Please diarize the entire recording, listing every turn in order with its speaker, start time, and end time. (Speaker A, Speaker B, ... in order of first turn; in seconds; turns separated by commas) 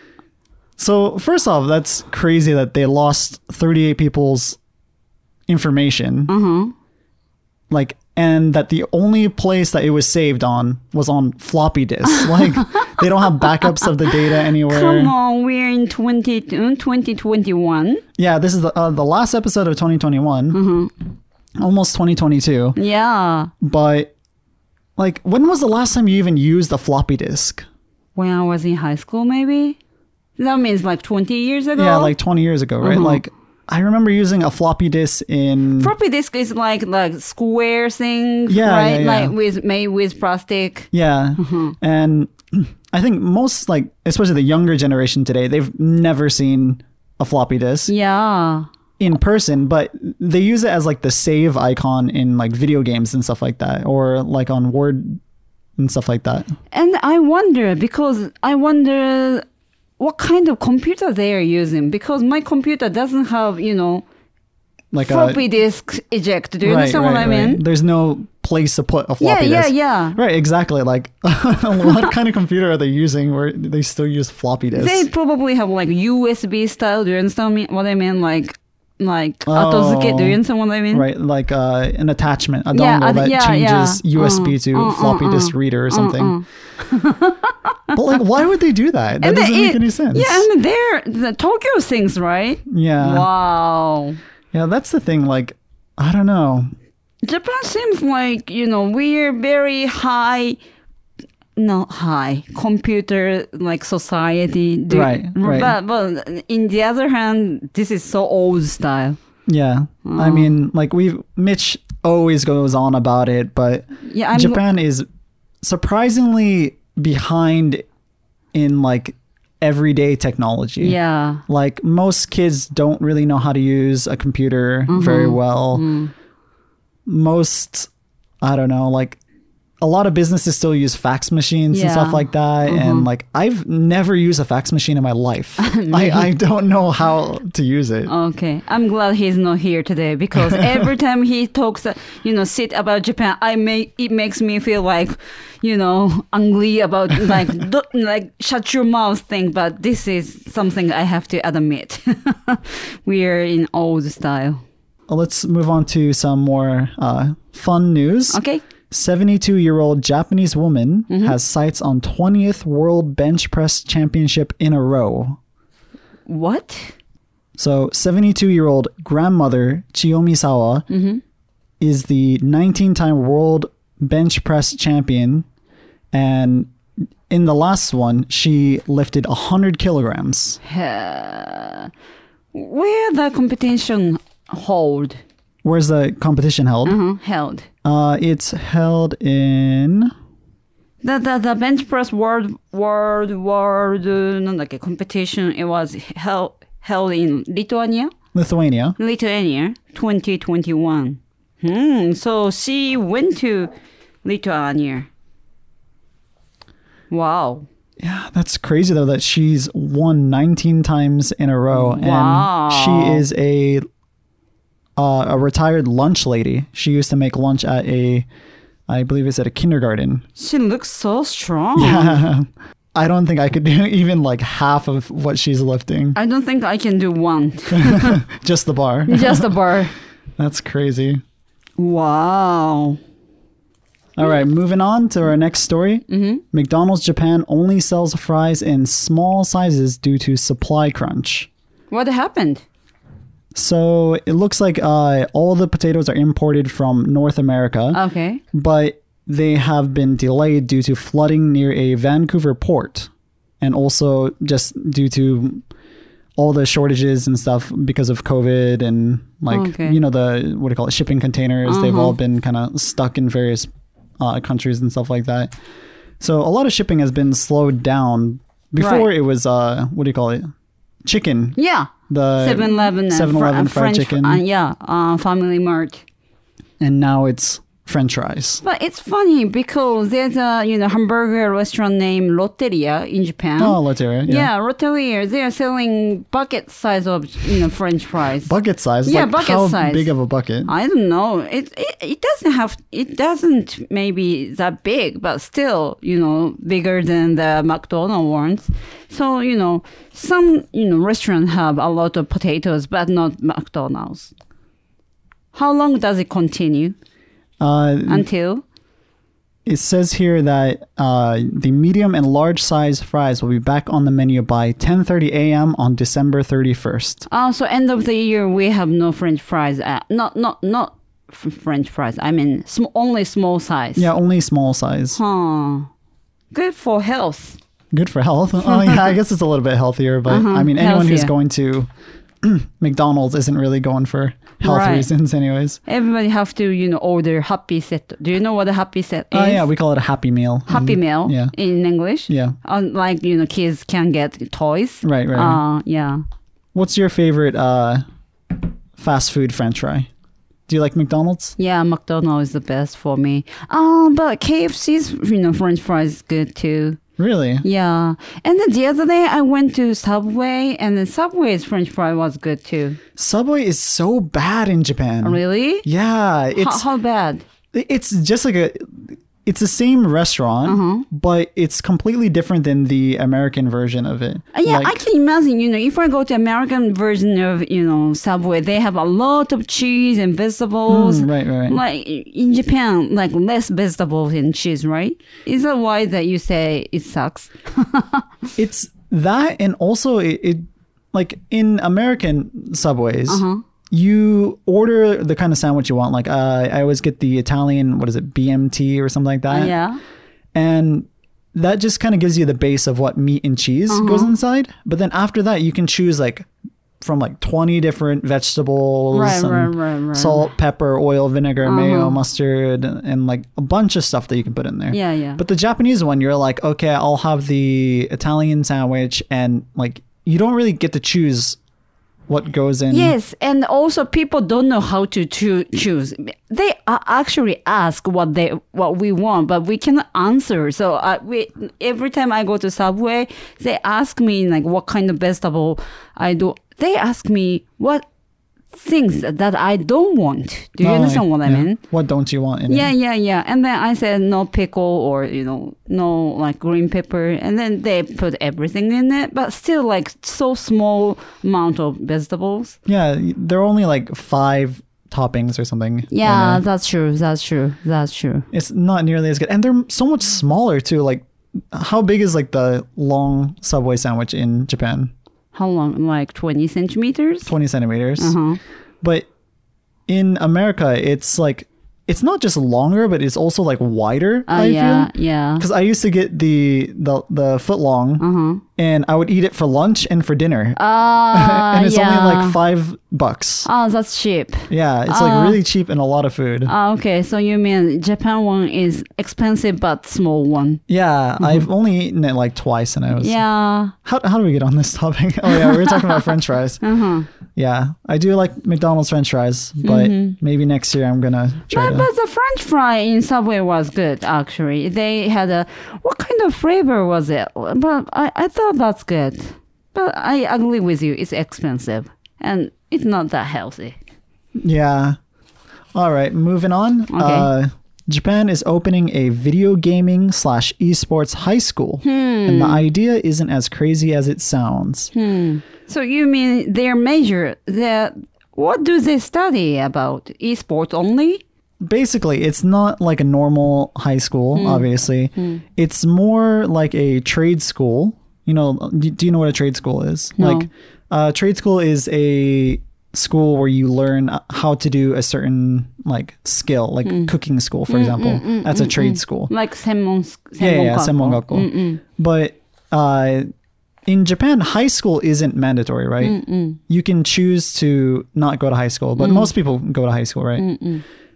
Speaker A: 0.8-4.6, Speaker A: 5.5-6.3, Speaker B: 6.3-6.7, Speaker A: 7.7-15.1, Speaker B: 12.2-13.1, Speaker B: 13.6-18.0, Speaker A: 18.2-20.6, Speaker B: 20.5-20.9, Speaker A: 21.6-22.8, Speaker B: 22.8-23.5, Speaker A: 23.6-24.1, Speaker A: 25.0-27.7, Speaker B: 28.1-29.8, Speaker B: 30.4-32.1, Speaker A: 31.8-35.9, Speaker B: 32.8-33.2, Speaker B: 35.8-41.8, Speaker A: 38.5-39.3, Speaker A: 40.9-47.9, Speaker B: 47.9-48.7, Speaker A: 49.0-55.2, Speaker A: 55.8-56.5, Speaker B: 56.7-59.4, Speaker B: 60.0-64.0, Speaker A: 64.9-65.4, Speaker B: 65.0-67.6, Speaker A: 66.6-75.1, Speaker B: 69.2-70.2, Speaker B: 74.7-81.1, Speaker A: 79.5-80.4, Speaker A: 80.9-86.4, Speaker B: 82.7-88.2, Speaker A: 87.9-90.5, Speaker B: 89.2-94.2, Speaker A: 92.7-93.3, Speaker A: 94.5-96.7, Speaker B: 97.2-100.6, Speaker B: 101.6-109.2, Speaker A: 104.9-105.8, Speaker A: 109.5-115.1, Speaker B: 110.0-110.5, Speaker B: 114.0-114.6, Speaker A: 115.6-117.8, Speaker A: 118.5-125.9, Speaker B: 120.8-121.4, Speaker B: 124.9-126.1, Speaker A: 127.1-127.9, Speaker A: 128.4-129.2, Speaker A: 129.8-138.1, Speaker B: 131.7-133.1, Speaker B: 135.6-136.3, Speaker B: 138.1-154.6, Speaker A: 140.4-140.8, Speaker A: 155.1-165.4, Speaker B: 158.3-158.6, Speaker B: 161.1-161.4, Speaker B: 166.3-166.9, Speaker A: 167.6-170.9, Speaker B: 170.9-171.2, Speaker A: 171.8-175.5, Speaker A: 176.1-176.7, Speaker A: 177.3-180.6, Speaker B: 180.6-181.9, Speaker B: 182.5-185.2, Speaker A: 185.6-187.0, Speaker B: 186.8-187.7, Speaker A: 187.8-190.1, Speaker B: 191.0-198.1, Speaker A: 198.3-199.0, Speaker B: 199.0-203.7, Speaker B: 204.2-205.1, Speaker B: 207.1-207.7, Speaker A: 208.0-213.8, Speaker B: 211.7-213.2, Speaker A: 215.0-218.3, Speaker A: 218.9-220.2, Speaker B: 220.4-222.2, Speaker A: 221.8-226.2, Speaker B: 226.2-228.2, Speaker A: 227.7-229.6, Speaker B: 229.1-229.9, Speaker A: 230.4-231.2, Speaker B: 231.8-233.0, Speaker A: 234.2-241.5, Speaker B: 236.1-236.4, Speaker B: 241.9-242.6, Speaker A: 243.5-248.0, Speaker B: 247.9-248.4, Speaker A: 248.5-255.6, Speaker A: 256.4-263.7, Speaker B: 259.5-260.0, Speaker B: 261.7-262.2, Speaker A: 264.2-265.5, Speaker A: 266.2-270.5, Speaker B: 268.8-269.1, Speaker A: 271.1-271.6, Speaker B: 271.6-276.0, Speaker A: 272.1-274.4, Speaker A: 276.8-278.6, Speaker B: 278.6-288.5, Speaker A: 283.6-284.5, Speaker A: 288.4-290.7, Speaker B: 289.1-290.1, Speaker B: 290.7-304.3, Speaker B: 305.5-307.0, Speaker A: 307.6-308.3, Speaker B: 308.1-308.6, Speaker A: 309.7-317.3, Speaker B: 317.3-324.1, Speaker A: 324.0-325.2, Speaker B: 325.2-325.9, Speaker B: 326.5-327.6, Speaker A: 327.9-331.9, Speaker B: 328.6-329.1, Speaker B: 330.3-331.3, Speaker A: 332.4-335.8, Speaker B: 334.6-335.1, Speaker B: 335.9-339.7, Speaker A: 339.3-341.5, Speaker B: 340.7-346.2, Speaker A: 342.3-342.6, Speaker A: 345.0-345.6, Speaker A: 346.7-348.0, Speaker A: 349.0-350.1, Speaker A: 350.7-351.6, Speaker B: 351.6-357.0, Speaker A: 357.2-357.6, Speaker B: 357.6-363.0, Speaker A: 363.2-366.9, Speaker B: 365.2-365.9, Speaker B: 366.6-367.4, Speaker A: 367.7-375.0, Speaker B: 370.6-371.1, Speaker B: 374.5-388.3, Speaker A: 380.9-381.8, Speaker A: 388.6-399.7, Speaker B: 393.3-393.6, Speaker B: 399.5-400.0, Speaker A: 400.5-406.5, Speaker B: 403.9-404.3, Speaker A: 407.0-421.6, Speaker B: 409.1-410.5, Speaker B: 411.6-412.2, Speaker B: 414.9-415.4, Speaker A: 422.3-423.1, Speaker B: 422.9-438.0, Speaker B: 438.7-441.8, Speaker A: 440.8-442.9, Speaker B: 442.7-452.8, Speaker A: 452.9-456.6, Speaker B: 456.1-458.5, Speaker A: 458.5-465.1, Speaker B: 465.5-467.5, Speaker A: 467.5-468.4, Speaker B: 468.2-468.6, Speaker A: 469.0-469.3, Speaker A: 470.1-478.2, Speaker B: 474.5-475.6, Speaker B: 478.2-478.6, Speaker A: 478.8-483.7, Speaker B: 480.8-482.6, Speaker B: 483.6-485.6, Speaker A: 484.7-486.7, Speaker B: 486.7-490.8, Speaker A: 490.9-493.4, Speaker B: 493.2-493.9, Speaker A: 494.0-496.8, Speaker B: 496.8-497.3, Speaker A: 497.6-502.1, Speaker B: 499.8-500.4, Speaker B: 501.7-514.0, Speaker A: 514.6-515.2, Speaker A: 515.9-525.1, Speaker B: 517.1-517.5, Speaker B: 522.0-522.9, Speaker B: 525.1-531.4, Speaker A: 531.8-549.5, Speaker B: 534.5-535.6, Speaker B: 540.4-540.7, Speaker B: 547.0-547.3, Speaker B: 547.9-552.0, Speaker A: 550.6-553.5, Speaker A: 554.1-560.7, Speaker B: 556.2-556.8, Speaker B: 559.2-559.5, Speaker B: 560.6-561.0